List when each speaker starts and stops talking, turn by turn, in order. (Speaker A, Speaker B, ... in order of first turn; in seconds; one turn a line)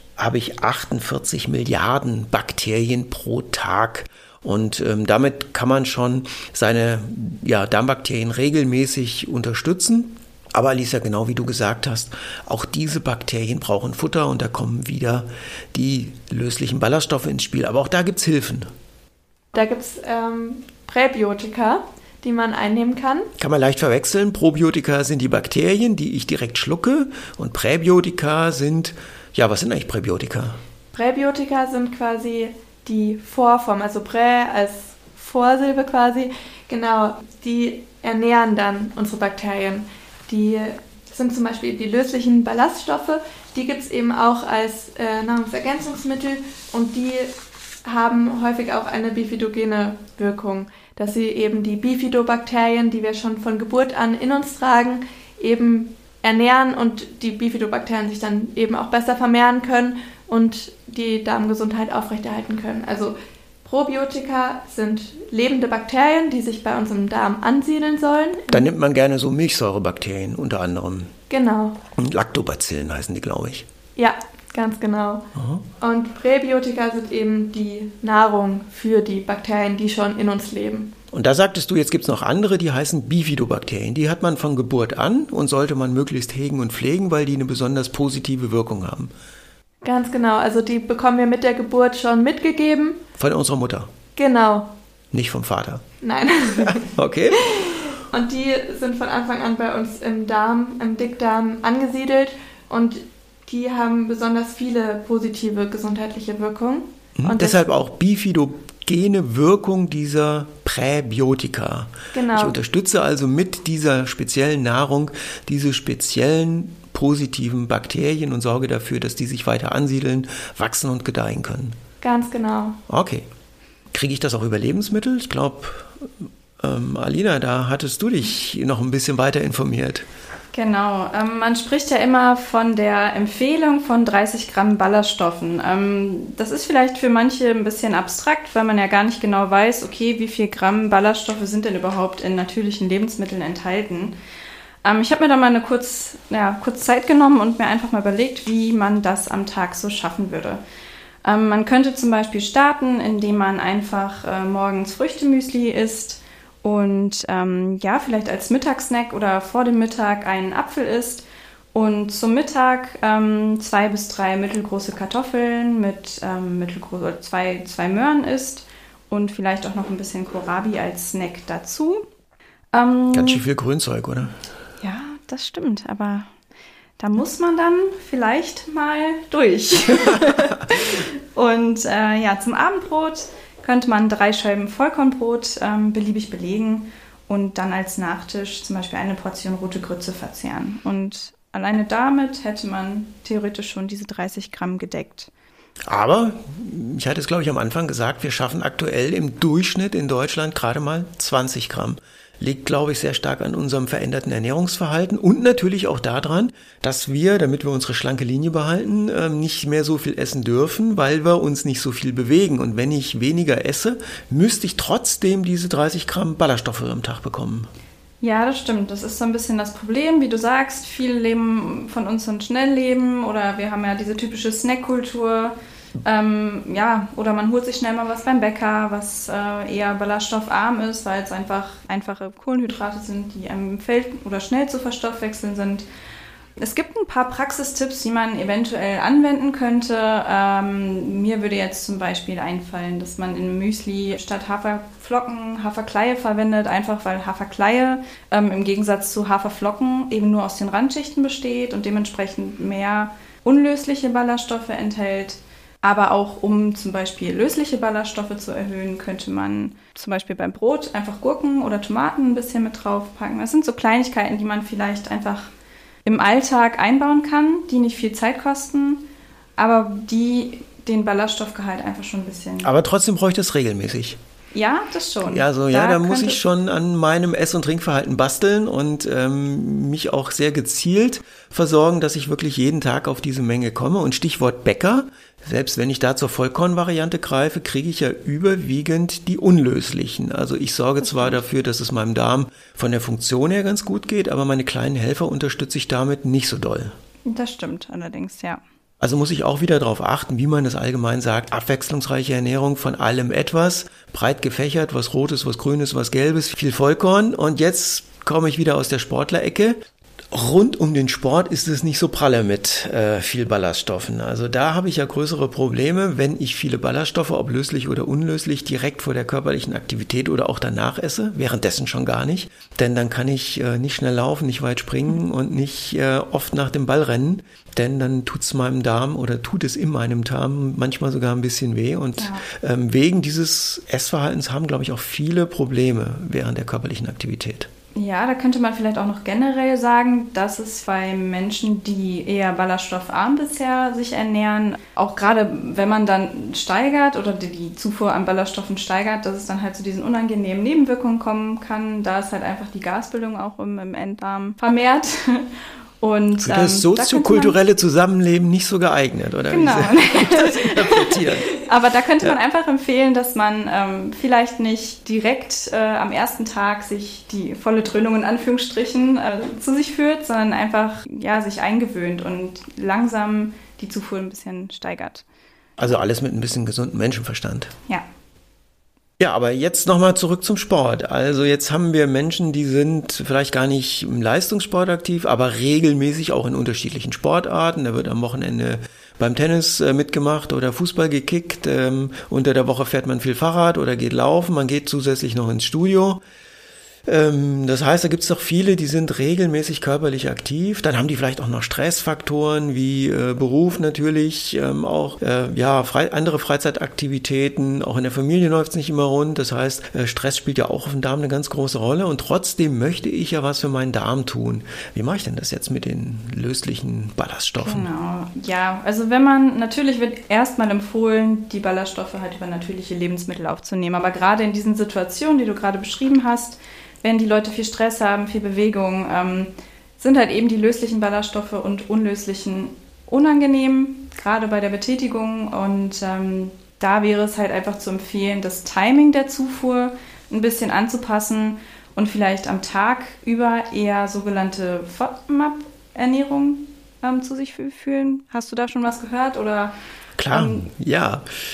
Speaker A: 0.2-18.7
Speaker B: 19.5-23.3
Speaker A: 23.4-30.6
Speaker B: 30.9-68.7
Speaker A: 68.5-71.1
Speaker B: 71.3-71.8
Speaker A: 72.0-73.7
Speaker B: 74.0-75.3
Speaker A: 75.3-75.7
Speaker B: 75.8-80.9
Speaker A: 81.1-89.1
Speaker B: 89.8-93.0
Speaker A: 93.2-93.9
Speaker B: 94.2-94.7
Speaker A: 95.1-95.8
Speaker B: 96.0-96.9
Speaker A: 96.5-97.5
Speaker B: 97.4-107.6
Speaker A: 107.2-121.8
Speaker B: 112.1-112.6
Speaker B: 122.0-122.8
Speaker A: 122.9-123.3
Speaker A: 123.9-130.1
Speaker C: 130.5-144.2
Speaker C: 144.8-150.6
Speaker C: 151.2-172.1
Speaker C: 172.7-173.4
Speaker A: 173.1-174.3
Speaker C: 174.8-176.3
Speaker C: 177.0-195.3
Speaker A: 195.9-217.7
Speaker C: 218.2-235.8
Speaker C: 236.6-265.5
Speaker C: 266.1-269.1
Speaker C: 269.6-272.7
Speaker A: 272.6-274.2
Speaker C: 274.5-276.4
Speaker A: 275.2-297.0
Speaker C: 297.3-298.6
Speaker A: 299.0-309.8
Speaker A: 310.3-337.7
Speaker C: 332.2-332.5
Speaker C: 337.9-357.6
Speaker A: 356.4-361.5
Speaker C: 359.5-375.2
Speaker A: 375.8-377.7
Speaker A: 379.2-396.2
Speaker A: 397.1-417.9
Speaker C: 417.6-449.7
Speaker A: 450.2-451.2
Speaker C: 450.3-450.7